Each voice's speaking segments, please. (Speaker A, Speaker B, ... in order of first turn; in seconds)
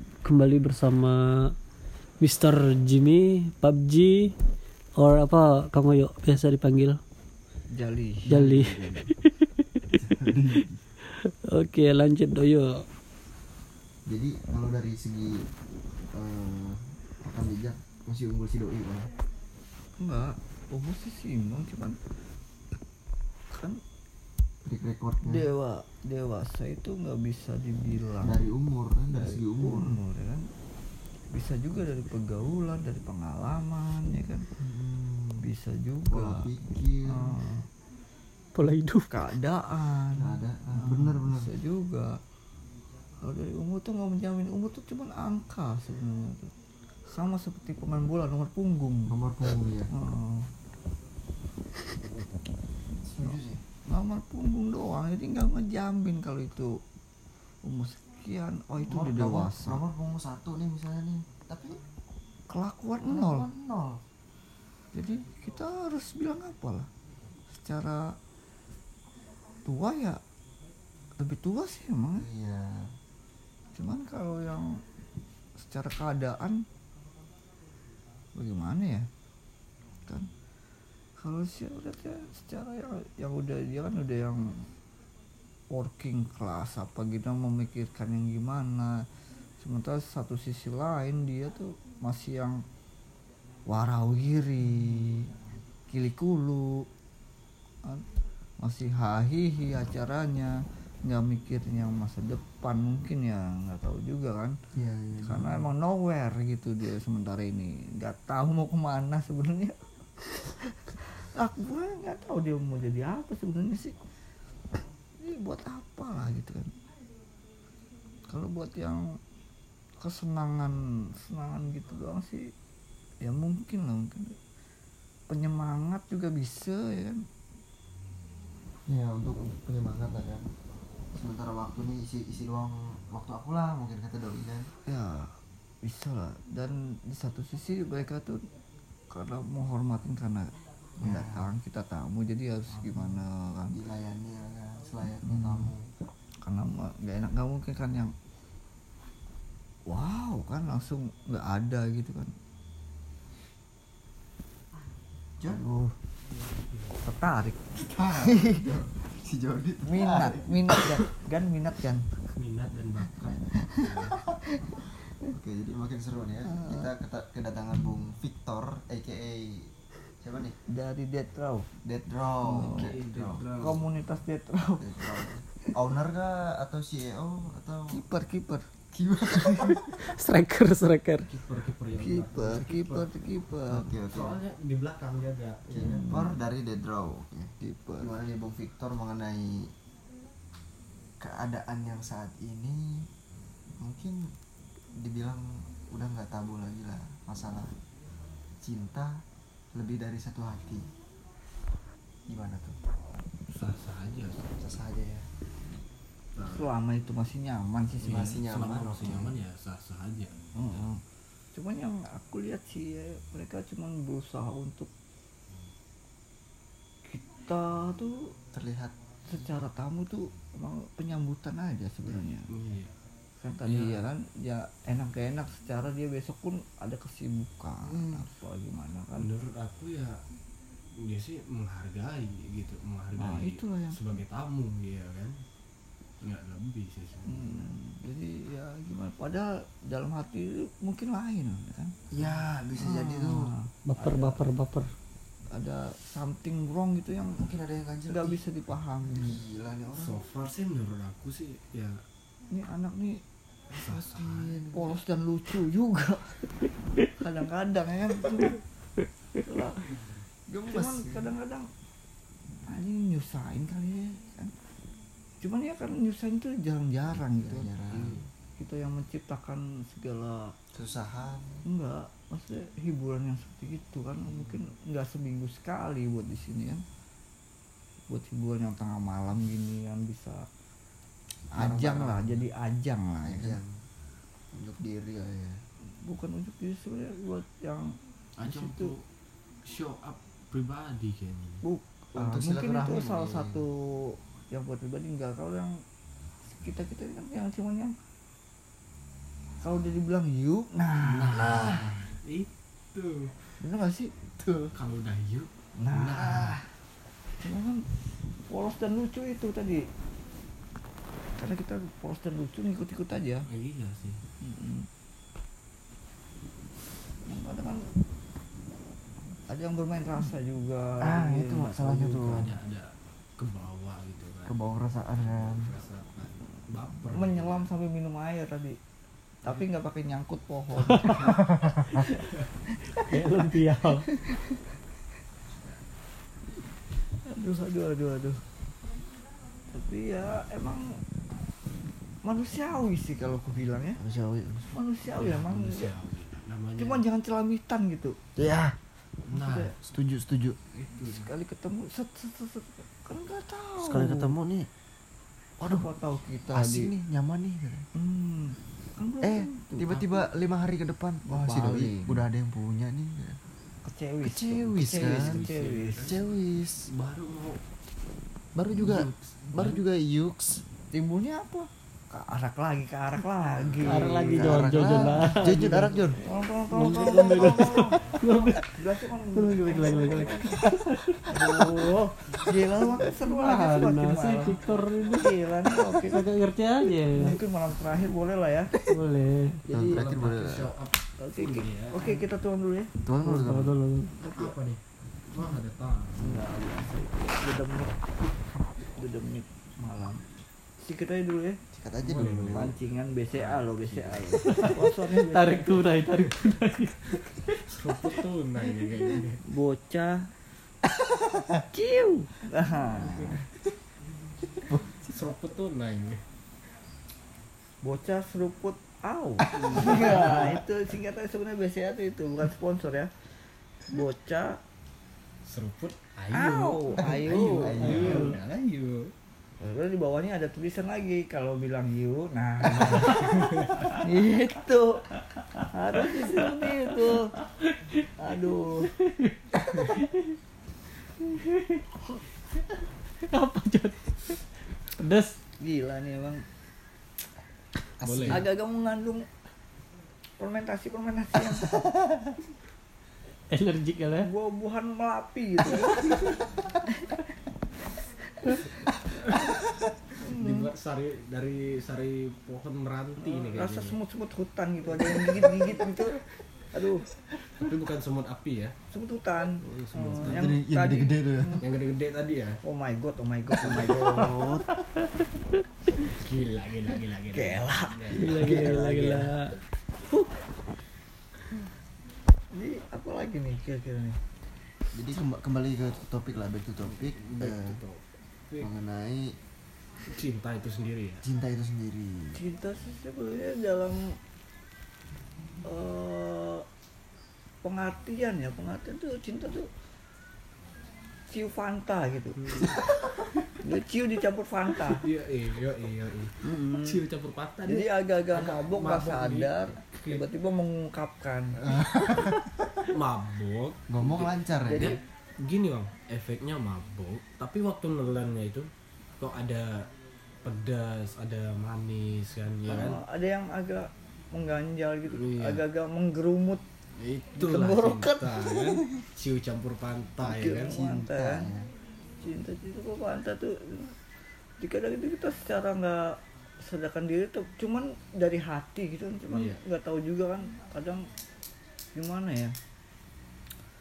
Speaker A: 0.2-1.5, 2.2-4.3, 5.0-7.0, 8.2-10.3, 11.1-12.8, 38.5-39.2, 179.5-181.3, 243.8-244.9, 330.8-332.1, 332.9-334.1, 373.8-376.1, 376.7-378.8, 379.3-381.9, 383.0-387.4, 388.9-389.6, 393.2-394.1, 404.5-407.6, 427.8-428.4, 436.0-438.1, 438.8-440.3, 441.3-441.8, 443.2-445.4, 453.5-454.3, 456.0-456.4, 474.4-474.8, 478.1-479.6
Speaker B: 7.7-8.3, 20.0-22.0, 23.5-23.8, 25.2-28.4, 29.1-30.5, 31.3-34.5, 35.4-36.5, 37.1-37.7, 39.1-42.2, 43.2-46.5, 47.1-49.1, 49.9-50.5, 53.2-56.8, 57.6-59.8, 62.5-63.5, 64.9-66.9, 67.5-68.2, 69.6-70.2, 71.2-72.3, 73.7-74.8, 75.6-76.6, 78.3-79.1, 81.2-84.7, 85.7-89.0, 89.6-92.6, 93.7-95.3, 95.9-96.9, 98.6-104.5, 105.2-113.9, 115.2-116.8, 118.3-119.2, 120.0-122.5, 123.2-124.4, 125.3-127.2, 134.8-138.4, 139.1-143.8, 145.2-145.7, 146.4-148.1, 149.9-152.3, 155.5-155.9, 157.0-157.6, 158.2-158.7, 159.8-162.1, 166.5-166.9, 170.7-171.7, 172.4-172.9, 173.6-175.3, 177.9-178.7, 182.0-183.9, 185.7-186.4, 187.6-188.1, 206.4-208.4, 210.5-211.0, 211.5-214.9, 217.1-218.3, 219.3-222.5, 223.4-229.3, 233.2-234.0, 237.3-241.9, 242.8-244.4, 245.5-247.5, 248.1-249.4, 252.5-253.2, 254.7-256.5, 257.2-258.6, 259.4-259.9, 260.5-261.7, 262.6-264.6, 265.4-267.7, 268.6-270.5, 271.6-276.8, 278.1-280.5, 281.6-283.6, 285.8-287.9, 288.5-288.9, 291.6-295.8, 296.5-298.0, 299.6-301.8, 303.6-304.1, 305.8-306.7, 307.4-307.9, 308.4-309.9, 311.4-313.4, 314.4-314.9, 317.2-317.9, 319.5-322.4, 327.1-328.8, 329.4-331.4, 334.1-334.6, 337.2-338.4, 339.7-341.0, 342.2-344.0, 344.7-345.9, 346.8-348.2, 349.3-349.7, 351.0-354.3, 355.6-356.9, 357.9-360.2, 361.2-362.2, 363.8-366.1, 370.9-374.6, 376.2-380.6, 381.3-386.2, 386.8-388.7, 389.6-390.1, 391.2-392.9, 394.2-394.5, 396.1-398.0, 398.9-400.3, 400.8-401.6, 402.5-405.9, 409.4-410.3, 411.7-413.4, 417.8-423.1, 423.9-424.6, 426.3-428.3, 429.6-435.1, 435.6-437.3, 438.2-438.9, 445.6-446.4, 448.3-449.3, 450.4-451.8, 454.2-456.2, 456.9-457.1, 460.2-460.7, 463.2-466.2, 466.7-467.0, 468.9-471.6, 472.6-474.3, 477.3-478.3, 482.5-484.2, 492.3-494.2, 495.6-496.6, 497.6-499.7, 501.3-502.6, 503.6-505.0, 506.4-507.0, 507.7-511.6, 514.6-515.0, 522.7-526.6, 527.4-528.7, 530.2-531.5, 532.2-533.9, 534.6-541.1, 541.9-542.5
Speaker C: 8.2-9.1, 10.0-10.8, 14.1-15.5, 16.1-19.1, 24.6-25.4, 28.2-30.0, 34.6-35.5, 36.1-37.4, 40.1-41.5, 49.1-49.9, 53.0-53.6, 58.9-61.8, 63.1-64.0, 72.2-73.0, 104.7-105.6, 128.9-130.5, 131.1-134.7, 141.0-141.5, 142.8-143.2, 143.7-145.9, 155.4-155.7, 157.8-160.9, 165.3-170.6, 171.8-173.5, 174.8-178.0, 178.9-179.9, 183.7-184.4, 185.7-189.7, 191.2-193.1, 193.8-194.3, 195.0-197.7, 198.6-199.2, 199.7-200.9, 202.3-202.8, 204.6-205.3, 208.1-209.4, 218.5-219.6, 227.8-228.3, 242.1-243.5, 247.4-248.4, 249.1-250.2, 253.8-255.0, 260.7-261.2, 267.4-268.2, 270.7-271.6, 281.5-282.4, 283.3-283.8, 284.5-285.6, 292.2-293.6, 301.4-301.9, 304.4-304.7, 321.0-322.5, 324.4-325.7, 344.0-344.7, 348.4-348.8, 349.8-350.6, 353.8-354.7, 356.5-357.9, 359.2-363.4, 364.2-365.4, 366.0-366.9, 368.5-370.6, 374.2-376.2, 377.3-377.6, 389.7-390.7, 393.0-393.7, 401.7-402.7, 410.8-411.6, 414.6-415.2, 419.5-420.5, 427.0-428.4, 432.7-433.1, 448.0-448.5, 470.2-471.6, 473.9-474.7, 478.4-478.8, 484.9-487.8, 488.6-489.4, 491.2-492.4, 502.6-503.2, 511.6-512.8, 513.9-515.0, 530.4-531.7
Speaker D: 156.3-156.9, 162.3-164.2, 172.6-173.8, 181.3-183.1, 184.1-185.6, 203.5-204.5, 206.4-206.7, 208.0-210.8, 222.5-222.9, 223.7-224.0, 229.2-230.2, 231.0-235.4, 236.2-237.7, 249.9-252.0, 253.7-254.6, 267.9-268.2, 288.4-288.9, 289.6-291.6, 301.0-303.5, 304.7-306.6, 313.5-314.2, 322.2-324.6, 325.2-327.7, 345.1-347.0, 349.3-349.7, 350.7-351.3, 364.9-366.2, 366.9-367.6, 368.7-369.8, 373.6-374.3, 389.9-392.0, 394.3-396.4, 402.0-402.8, 403.3-404.7, 407.6-409.4, 415.0-416.2, 419.5-420.5, 425.4-429.1, 432.7-434.0, 448.0-448.4, 460.2-464.0, 465.5-465.9, 467.5-468.8, 469.6-470.5, 471.6-472.6, 476.0-479.4, 486.8-488.7, 490.0-491.2, 502.4-502.8, 504.9-510.2, 512.9-518.7, 519.2-519.8, 520.4-523.0, 525.1-525.6, 527.0-530.8, 539.3-539.6